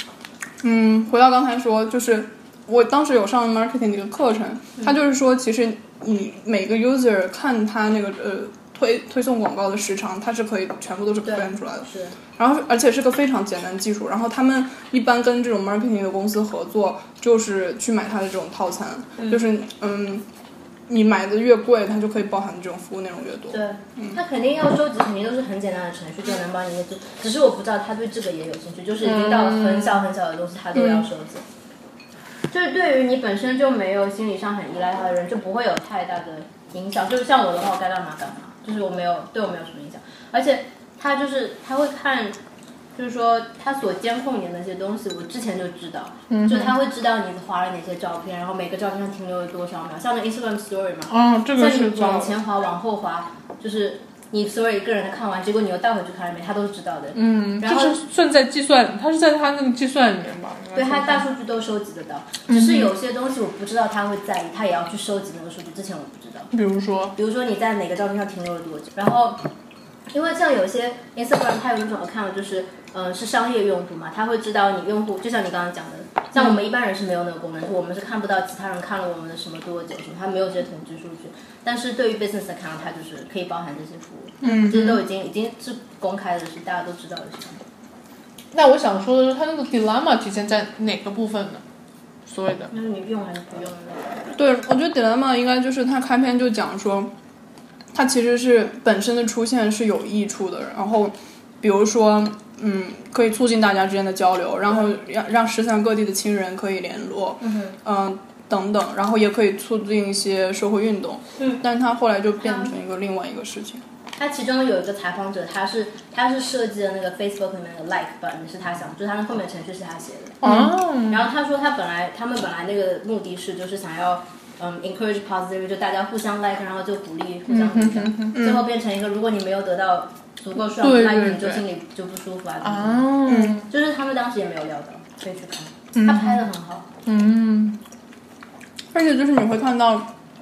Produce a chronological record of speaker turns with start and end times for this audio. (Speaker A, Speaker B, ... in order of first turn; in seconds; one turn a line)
Speaker A: 0.6-20.2
Speaker B: 11.2-12.2
Speaker B: 19.2-19.4
Speaker A: 20.9-24.2
Speaker B: 23.5-31.4
Speaker C: 29.1-29.9
Speaker A: 30.8-31.1
Speaker B: 32.5-42.4
Speaker B: 43.0-58.0
Speaker C: 46.3-46.8
Speaker C: 51.1-52.4
Speaker C: 57.1-61.3
Speaker B: 60.7-66.5
Speaker C: 62.5-62.9
Speaker C: 66.5-67.2
Speaker B: 67.2-69.4
Speaker B: 70.1-87.6
Speaker A: 84.4-85.0
Speaker C: 84.5-84.9
Speaker C: 88.5-91.6
Speaker C: 92.3-92.7
Speaker B: 92.7-94.2
Speaker A: 94.3-97.1
Speaker A: 97.9-113.8
Speaker B: 107.4-107.8
Speaker B: 112.4-112.7
Speaker B: 114.2-120.4
Speaker C: 120.4-121.3
Speaker B: 121.1-136.9
Speaker C: 127.5-128.4
Speaker A: 128.3-128.6
Speaker C: 130.8-131.7
Speaker C: 132.6-133.7
Speaker A: 133.3-133.7
Speaker C: 135.9-136.4
Speaker C: 137.1-137.8
Speaker A: 138.9-140.1